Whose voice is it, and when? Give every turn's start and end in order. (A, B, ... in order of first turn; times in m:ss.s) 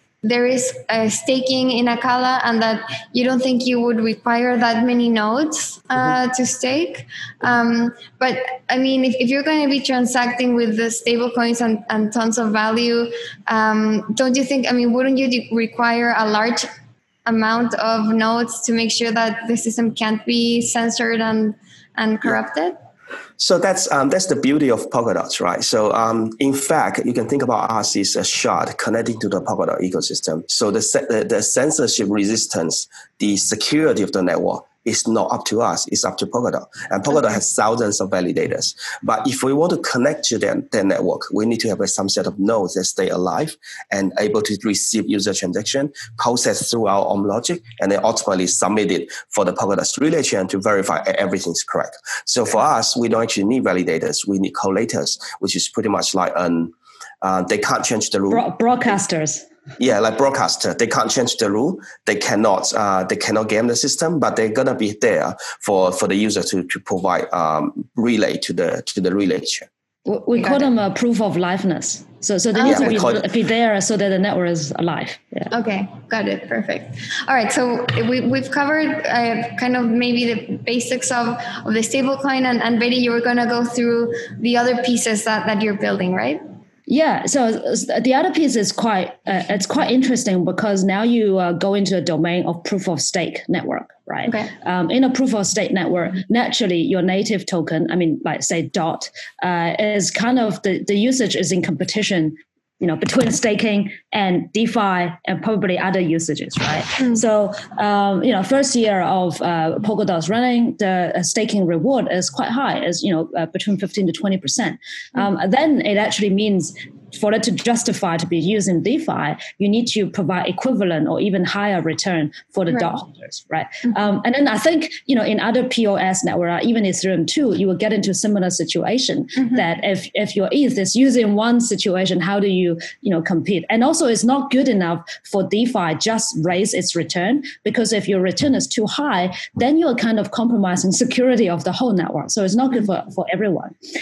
0:00.2-0:16.6 A
0:17.2-0:22.8 A
0:23.4-0:58.5 B
0:58.3-0:59.4 C
0:59.8-1:09.7 B
1:10.0-1:15.5 C
1:10.4-1:10.7 A
1:12.6-1:13.0 A
1:12.6-1:13.2 B
1:15.5-1:26.4 A
1:26.9-2:23.7 C
1:34.2-1:34.5 A